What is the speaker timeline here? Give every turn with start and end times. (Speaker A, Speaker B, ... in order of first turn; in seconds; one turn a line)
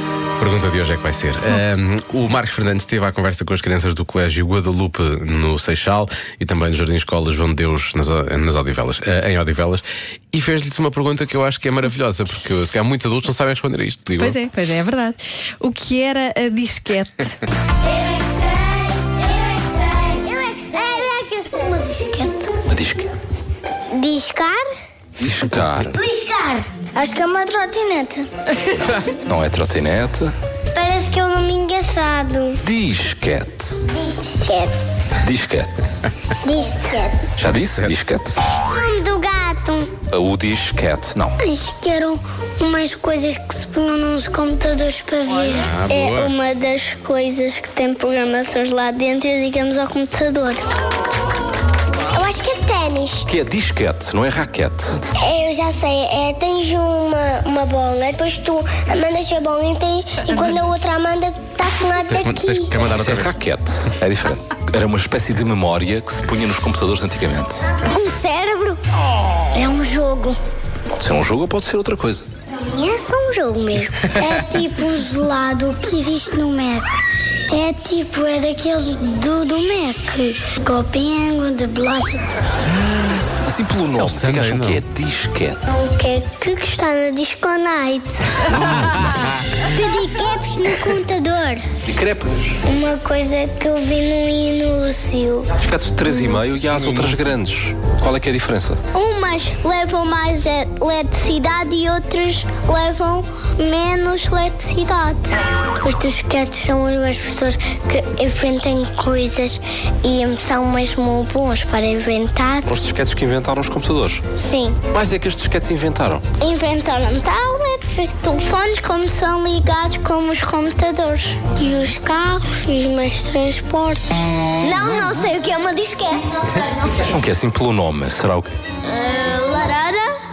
Speaker A: 0.4-14.3
Speaker B: 14.2-17.4
Speaker C: 17.9-22.5
Speaker D: 22.7-23.2
Speaker C: 23.9-24.6
Speaker D: 25.2-26.0
Speaker C: 25.9-28.3
Speaker D: 28.7-30.3
Speaker C: 30.7-32.6
Speaker D: 32.6-33.8
Speaker C: 33.9-34.8
Speaker D: 35.2-35.9
Speaker C: 36.4-37.3
Speaker D: 37.4-38.4
Speaker A: 37.5-38.1
Speaker C: 38.5-39.9
Speaker D: 40.1-41.4
Speaker C: 41.4-50.6
Speaker A: 45.4-46.3
Speaker C: 52.1-53.3
Speaker D: 53.3-55.0
Speaker C: 55.1-62.7
Speaker B: 60.3-60.8
Speaker A: 62.1-63.3
Speaker D: 62.9-67.8
Speaker C: 67.8-68.8
Speaker C: 69.5-70.3
Speaker D: 71.0-72.2
Speaker C: 72.5-76.9
Speaker C: 77.5-82.2
Speaker D: 83.4-85.9
Speaker A: 83.9-84.8
Speaker C: 85.7-88.4
Speaker D: 88.5-89.2
Speaker A: 88.5-89.4
Speaker C: 89.6-91.6
Speaker D: 91.8-92.6
Speaker C: 92.7-95.5
Speaker D: 95.5-98.8
Speaker C: 96.1-96.3
Speaker A: 96.6-97.2
Speaker C: 98.9-112.8
Speaker D: 112.7-114.2
Speaker C: 114.4-114.8
Speaker D: 114.9-116.2
Speaker C: 116.4-124.0
Speaker C: 124.6-127.0
Speaker D: 126.9-128.6
Speaker C: 128.8-130.1